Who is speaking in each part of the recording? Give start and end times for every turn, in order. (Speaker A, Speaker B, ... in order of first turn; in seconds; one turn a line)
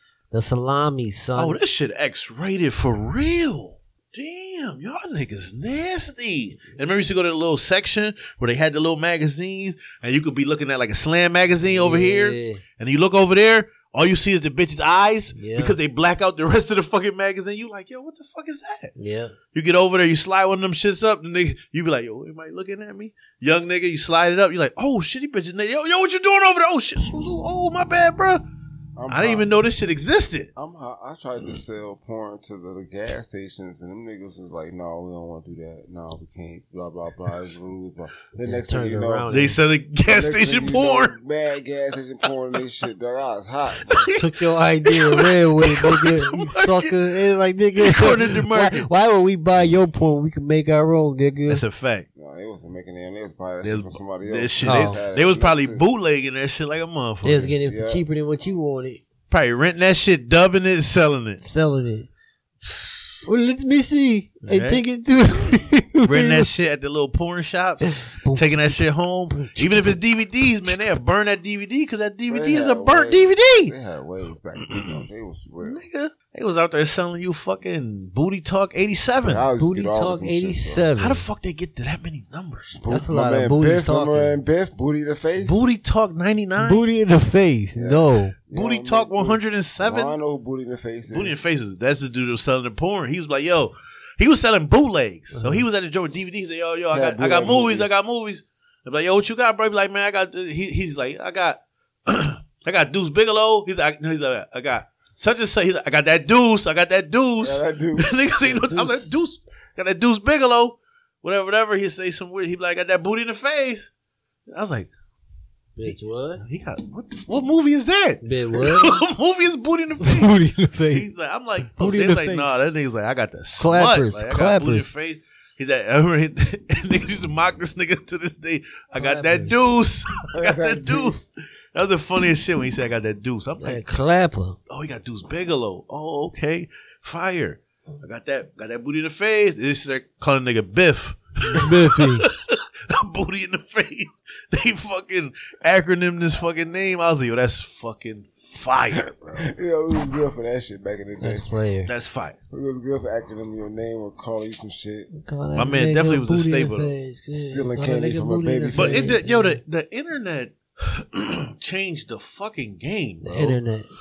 Speaker A: 0.3-1.6
Speaker B: 1.4-18.9
Speaker A: 11.6-12.6
Speaker A: 15.3-15.8
Speaker A: 19.0-19.4
Speaker B: 19.5-28.4
Speaker C: 29.0-29.5
Speaker B: 29.1-30.5
Speaker C: 30.6-39.3
Speaker A: 38.4-39.6
Speaker B: 39.3-41.1
Speaker C: 40.1-44.1
Speaker B: 43.8-47.0
Speaker A: 44.1-51.6
Speaker B: 47.8-48.9
Speaker B: 51.5-52.1
Speaker C: 52.2-55.8
Speaker B: 53.6-57.5
Speaker A: 54.6-55.0
Speaker A: 57.2-59.0
Speaker C: 57.5-58.0
Speaker B: 59.3-61.4
Speaker A: 61.4-62.1
Speaker A: 63.2-66.5
Speaker B: 64.4-64.8
Speaker B: 66.0-73.7
Speaker A: 67.9-68.8
Speaker A: 69.3-70.0
Speaker C: 72.3-75.8
Speaker B: 74.6-75.0
Speaker B: 75.6-79.5
Speaker C: 79.2-80.8
Speaker A: 79.6-81.2
Speaker B: 81.0-82.8
Speaker C: 82.8-85.6
Speaker A: 82.9-84.4
Speaker B: 85.4-86.8
Speaker A: 86.6-88.3
Speaker C: 87.8-91.4
Speaker B: 88.5-90.2
Speaker B: 91.1-113.9
Speaker A: 95.3-95.7
Speaker C: 96.9-98.0
Speaker C: 107.4-108.1
Speaker A: 108.4-109.1
Speaker B: 114.5-114.9
Speaker A: 115.8-116.4
Speaker B: 116.4-120.3
Speaker A: 118.2-119.0
Speaker A: 120.0-121.1
Speaker B: 120.9-131.2
Speaker A: 121.6-122.5
Speaker A: 123.6-124.9
Speaker A: 129.0-129.7
Speaker C: 130.3-131.3
Speaker B: 131.7-134.0
Speaker A: 133.6-134.6
Speaker B: 134.7-149.5
Speaker A: 141.5-142.3
Speaker C: 149.4-151.5
Speaker A: 151.2-151.9
Speaker B: 151.9-152.3
Speaker C: 152.5-155.1
Speaker A: 155.1-159.6
Speaker B: 155.6-156.9
Speaker C: 157.3-159.2
Speaker B: 158.8-163.6
Speaker A: 163.2-163.9